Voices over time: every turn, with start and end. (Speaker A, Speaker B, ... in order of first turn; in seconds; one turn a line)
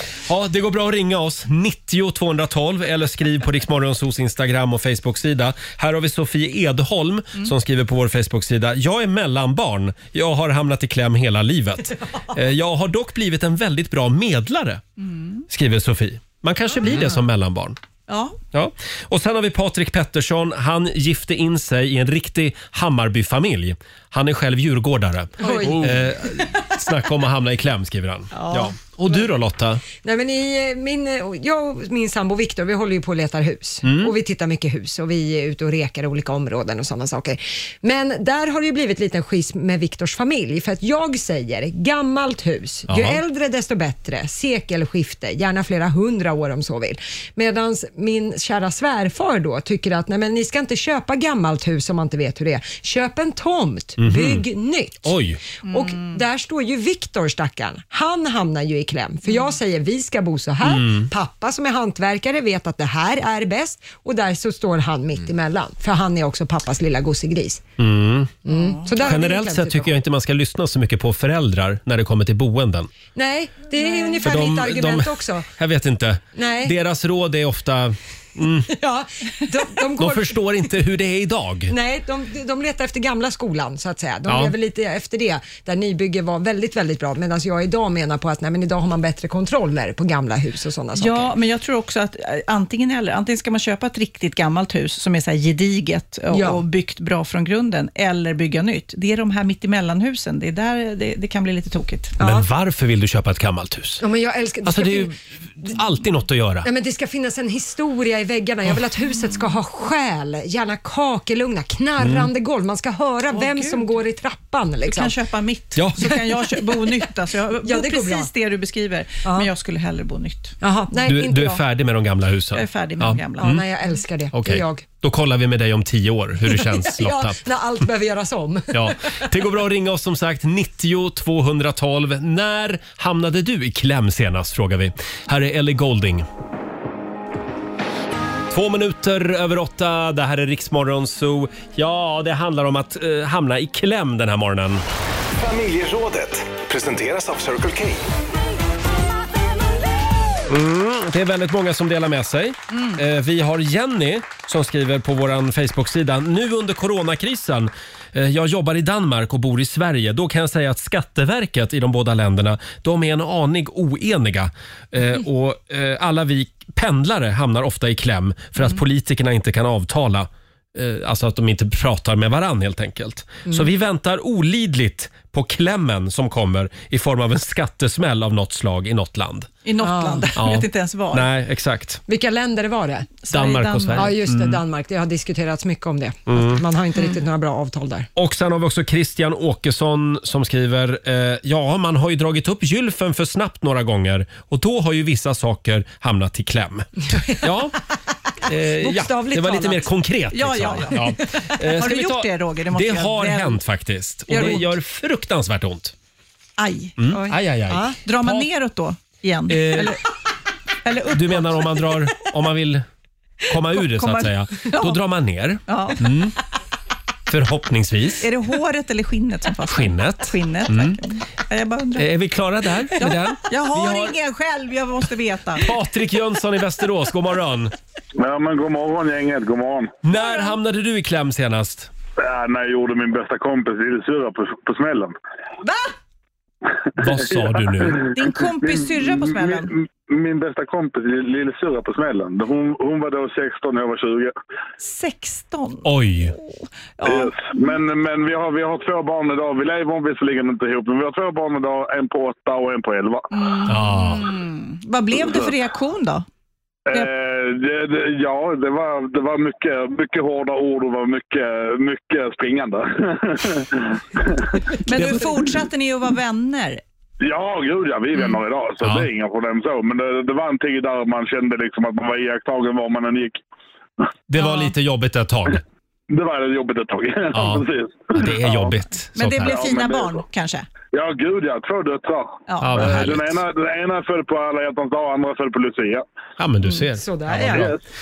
Speaker A: 0.2-14.8
Speaker B: 15.0-15.4
Speaker A: 15.5-17.8
Speaker B: 18.1-18.4
Speaker A: 18.5-29.8
Speaker C: 25.4-25.9
Speaker C: 30.0-55.1
Speaker A: 33.8-34.1
Speaker A: 42.9-43.2
Speaker A: 54.0-54.5
Speaker A: 55.0-55.4
Speaker B: 55.6-56.2
Speaker C: 55.7-67.6
Speaker A: 60.6-61.1
Speaker A: 67.8-68.3
Speaker C: 68.4-69.9
Speaker B: 68.5-69.1
Speaker A: 68.9-72.9
Speaker C: 73.1-75.5
Speaker B: 73.8-74.1
Speaker A: 74.2-78.7
Speaker C: 76.3-76.8
Speaker C: 78.7-80.4
Speaker A: 80.0-81.7
Speaker C: 81.7-91.3
Speaker A: 84.3-84.5
Speaker B: 91.0-102.1
Speaker C: 96.3-96.6
Speaker C: 102.2-102.5
Speaker A: 102.2-104.0
Speaker C: 104.0-105.1
Speaker A: 104.6-106.7
Speaker C: 106.6-115.1
Speaker A: 112.0-112.3
Speaker B: 113.3-114.0
Speaker B: 114.8-120.5
Speaker A: 115.7-116.4
Speaker C: 117.6-118.3
Speaker C: 120.6-121.6
Speaker A: 121.0-123.7
Speaker B: 122.5-123.6
Speaker C: 123.4-124.8
Speaker A: 124.3-127.4
Speaker C: 126.5-129.2
Speaker A: 128.7-136.2
Speaker A: 138.5-144.8
Speaker D: 145.4-148.0
Speaker A: 150.5-179.5
Speaker B: 152.7-153.0
Speaker B: 179.6-181.3
Speaker C: 179.8-180.3
Speaker A: 180.3-182.0
Speaker C: 182.1-183.1
Speaker B: 183.2-184.1
Speaker A: 183.3-184.6
Speaker C: 183.9-188.1
Speaker A: 186.3-186.6
Speaker A: 188.1-197.8
Speaker A: 198.4-205.9
Speaker C: 198.8-199.9
Speaker B: 200.3-203.6
Speaker B: 204.3-204.7
Speaker B: 206.6-207.3
Speaker A: 207.0-208.5
Speaker C: 207.1-208.0
Speaker B: 208.0-210.0
Speaker A: 209.5-210.0
Speaker B: 210.8-211.9
Speaker A: 211.1-212.8
Speaker A: 213.5-216.3
Speaker B: 213.7-215.0
Speaker B: 215.7-216.2
Speaker A: 217.3-218.3
Speaker B: 218.2-222.1
Speaker A: 219.6-221.0
Speaker A: 221.9-224.2
Speaker B: 222.9-225.7
Speaker A: 225.6-227.7
Speaker E: 228.2-230.0
Speaker A: 230.0-231.9
Speaker B: 230.1-230.5
Speaker E: 232.2-235.1
Speaker A: 237.0-238.0
Speaker B: 238.1-239.7
Speaker E: 238.6-244.3
Speaker B: 244.8-247.8
Speaker A: 245.8-246.3
Speaker E: 247.0-253.3
Speaker B: 253.3-256.2
Speaker A: 253.7-254.3
Speaker E: 256.9-264.6
Speaker B: 264.8-266.8
Speaker E: 267.2-273.4
Speaker A: 268.8-269.1
Speaker A: 274.3-275.6
Speaker B: 274.4-274.7
Speaker E: 276.1-278.8
Speaker A: 277.3-279.6
Speaker B: 279.1-280.7
Speaker E: 279.4-280.2
Speaker E: 280.9-286.0
Speaker B: 282.5-283.2
Speaker A: 282.6-283.4
Speaker A: 286.4-287.8
Speaker C: 287.0-287.7
Speaker E: 287.5-287.8